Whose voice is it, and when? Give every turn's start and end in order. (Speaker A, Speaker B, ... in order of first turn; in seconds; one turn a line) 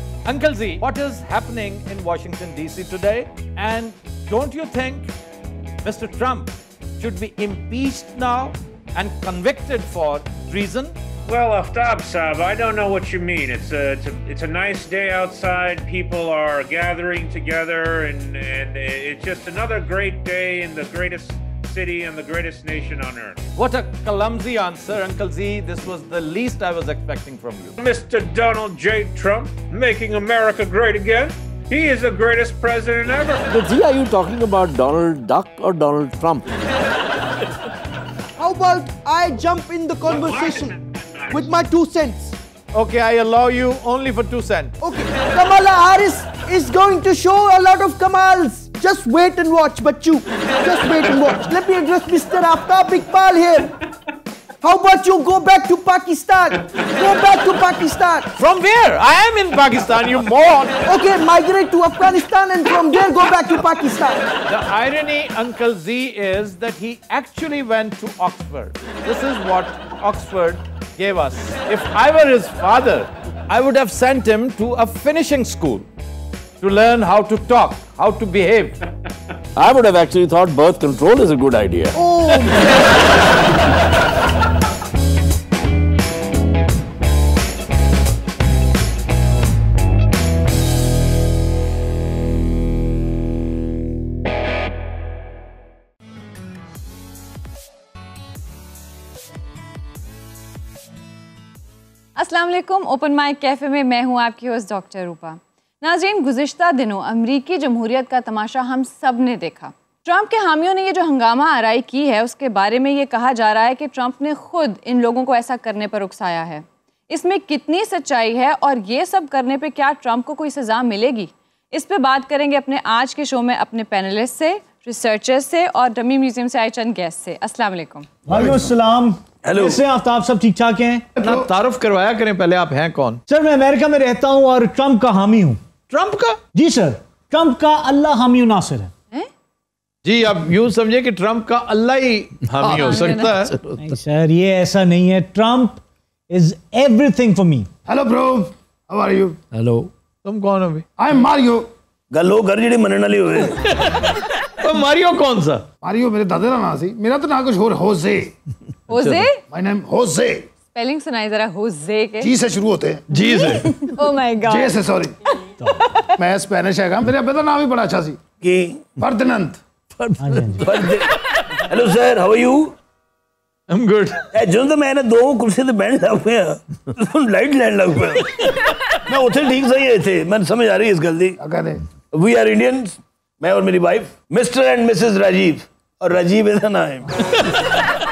Speaker A: 0.2-5.1
Speaker A: 5.8-10.9
Speaker B: 11.2-23.4
Speaker A: 23.6-27.8
Speaker B: 27.8-33.5
Speaker C: 33.5-36.5
Speaker D: 38.4-40.8
Speaker D: 41.3-42.4
Speaker A: 42.7-44.7
Speaker D: 44.8-53.7
Speaker D: 54.6-58.3
Speaker A: 58.4-60.8
Speaker D: 60.8-64.2
Speaker A: 64.5-75.9
Speaker A: 76.6-78.8
Speaker C: 79.5-82.0
Speaker D: 82.0-82.7
Speaker E: 102.2-128.2
Speaker F: 128.3-131.1
Speaker G: 128.3-128.6
Speaker G: 129.4-129.8
Speaker H: 131.2-131.5
Speaker A: 131.2-133.2
Speaker F: 133.3-135.6
Speaker A: 135.9-136.4
Speaker F: 136.5-138.9
Speaker A: 140.0-143.6
Speaker C: 142.6-144.0
Speaker E: 142.7-143.4
Speaker F: 143.8-147.7
Speaker H: 147.9-149.4
Speaker C: 149.5-149.9
Speaker A: 150.2-150.8
Speaker H: 151.0-151.7
Speaker G: 152.1-153.6
Speaker A: 154.6-155.6
Speaker H: 155.8-158.3
Speaker E: 158.9-159.4
Speaker A: 158.9-159.2
Speaker H: 159.5-160.5
Speaker E: 160.7-162.3
Speaker H: 162.2-163.0
Speaker A: 163.1-163.8
Speaker E: 163.1-164.8
Speaker H: 164.4-165.1
Speaker E: 165.6-166.2
Speaker H: 166.2-168.2
Speaker G: 168.4-168.8
Speaker H: 169.0-169.6
Speaker C: 169.9-170.9
Speaker F: 170.2-170.7
Speaker G: 170.6-172.7
Speaker A: 173.7-174.2
Speaker G: 174.3-178.4
Speaker G: 179.1-181.4
Speaker H: 181.4-181.8
Speaker G: 182.1-187.1